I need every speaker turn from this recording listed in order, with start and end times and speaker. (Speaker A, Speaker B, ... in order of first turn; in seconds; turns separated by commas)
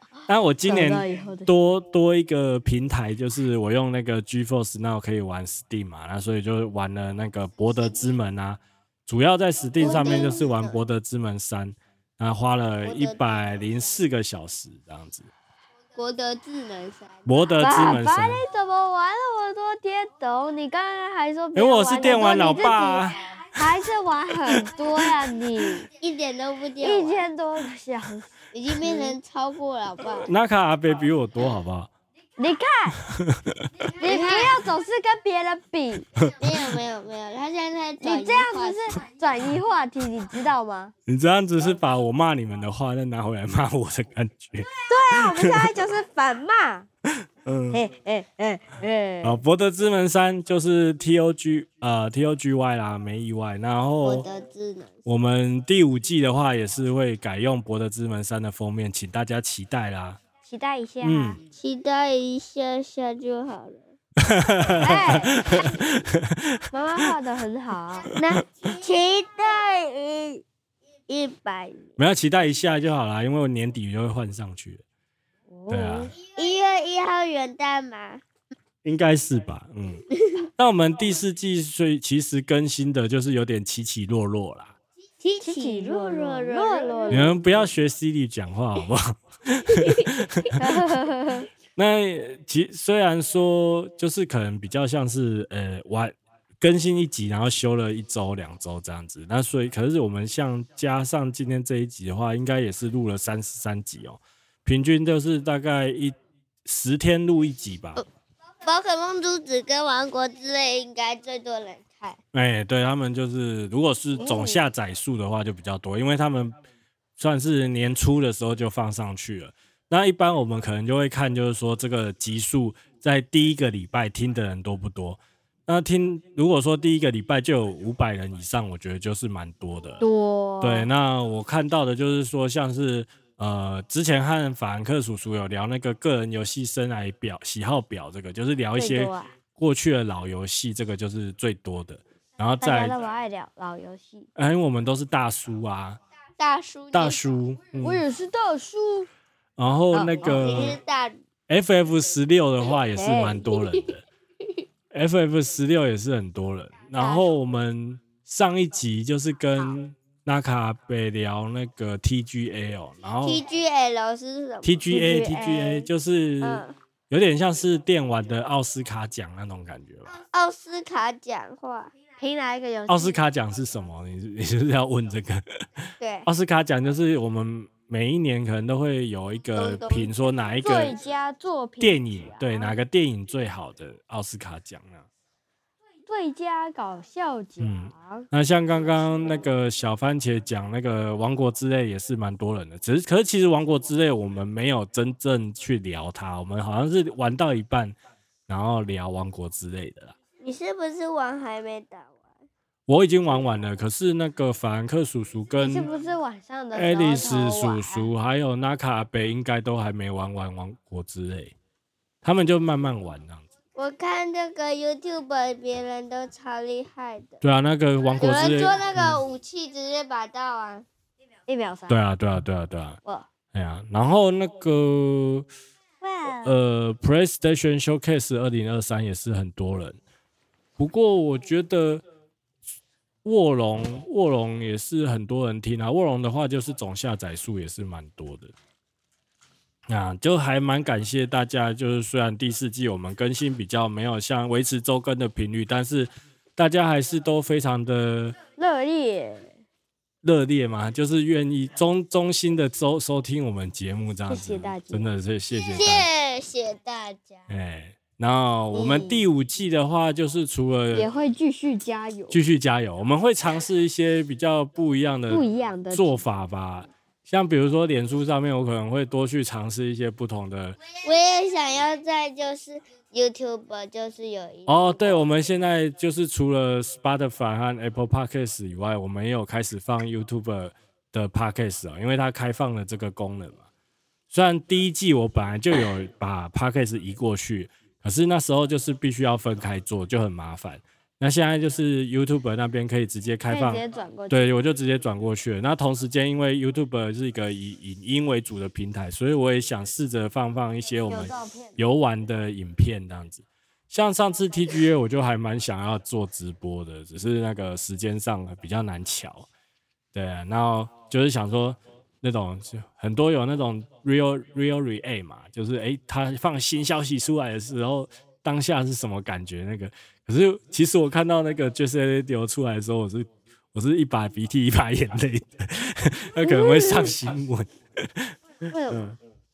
Speaker A: 0.3-15.3, Speaker B: 0.6-1.5, Speaker C: 9.8-10.8, Speaker C: 12.8-13.7, Speaker C: 15.9-17.2, Speaker A: 17.2-18.4, Speaker B: 17.6-25.9, Speaker A: 21.5-23.2, Speaker C: 26.0-27.2, Speaker B: 26.8-29.2, Speaker C: 28.5-30.3, Speaker A: 30.2-31.9, Speaker B: 32.4-33.0, Speaker A: 33.0-33.6, Speaker B: 34.0-36.1, Speaker C: 34.0-34.6, Speaker C: 36.4-39.0, Speaker B: 38.0-40.9, Speaker A: 41.1-45.7, Speaker B: 44.9-46.9, Speaker A: 47.4-47.8, Speaker B: 47.7-49.4, Speaker A: 49.2-54.2, Speaker C: 54.0-55.0, Speaker A: 55.0-60.2, Speaker B: 60.4-61.4, Speaker A: 61.0-61.4, Speaker C: 61.5-63.9, Speaker A: 64.2-67.1, Speaker B: 64.8-65.6, Speaker B: 66.7-68.1, Speaker A: 68.2-68.4, Speaker C: 68.2-70.4, Speaker C: 71.1-71.9, Speaker A: 72.0-74.8, Speaker B: 75.5-76.1, Speaker A: 75.7-76.1, Speaker C: 76.3-78.2, Speaker A: 78.8-80.0, Speaker C: 80.2-80.5, Speaker A: 80.6-84.8, Speaker C: 85.2-87.3, Speaker B: 85.4-87.4, Speaker A: 87.1-90.6, Speaker C: 89.8-90.1, Speaker B: 90.5-91.5, Speaker A: 91.8-108.0, Speaker C: 108.6-112.2, Speaker A: 112.3-116.5, Speaker B: 114.2-114.6, Speaker A: 117.2-130.0, Speaker B: 130.0-130.9, Speaker A: 130.6-143.0, Speaker B: 138.8-139.3, Speaker B: 142.6-144.3, Speaker A: 144.3-146.0, Speaker C: 146.4-147.4, Speaker A: 146.9-148.0, Speaker B: 147.8-149.1, Speaker A: 149.6-150.8, Speaker B: 149.9-150.4, Speaker C: 150.2-151.2, Speaker A: 151.5-154.0, Speaker B: 152.9-153.4, Speaker C: 153.6-153.8, Speaker A: 154.9-163.4, Speaker C: 157.0-157.2, Speaker C: 163.2-164.9, Speaker A: 164.6-170.2, Speaker B: 164.9-165.9, Speaker C: 166.4-166.7, Speaker C: 170.1-171.9, Speaker B: 172.2-173.2, Speaker A: 172.9-181.0, Speaker C: 176.0-176.3, Speaker C: 179.5-180.1, Speaker B: 180.6-182.8, Speaker A: 181.8-185.0, Speaker B: 186.1-188.3, Speaker A: 187.6-197.9, Speaker A: 198.5-200.1, Speaker C: 200.4-202.3, Speaker A: 202.9-205.9, Speaker B: 205.6-208.1, Speaker A: 206.7-211.5, Speaker A: 212.2-213.4, Speaker C: 213.7-217.4, Speaker A: 217.4-219.2, Speaker C: 218.2-220.8, Speaker B: 221.5-222.0, Speaker A: 221.9-223.0, Speaker A: 223.5-225.5, Speaker B: 226.0-226.5, Speaker A: 226.3-230.0, Speaker A: 230.8-232.0, Speaker A: 233.2-238.5, Speaker A: 239.9-248.3, Speaker B: 248.6-249.6, Speaker A: 250.2-256.1, Speaker B: 254.3-255.1, Speaker C: 255.5-257.4, Speaker A: 257.5-261.1, Speaker B: 258.7-259.2, Speaker C: 258.8-259.1, Speaker B: 260.9-262.4, Speaker A: 262.3-270.8, Speaker B: 265.3-266.2, Speaker C: 271.0-275.2, Speaker A: 274.7-283.6, Speaker A: 284.3-309.5, Speaker B: 293.5-294.6, Speaker B: 301.1-301.8, Speaker A: 310.1-329.2, Speaker B: 326.4-327.1, Speaker B: 328.7-329.0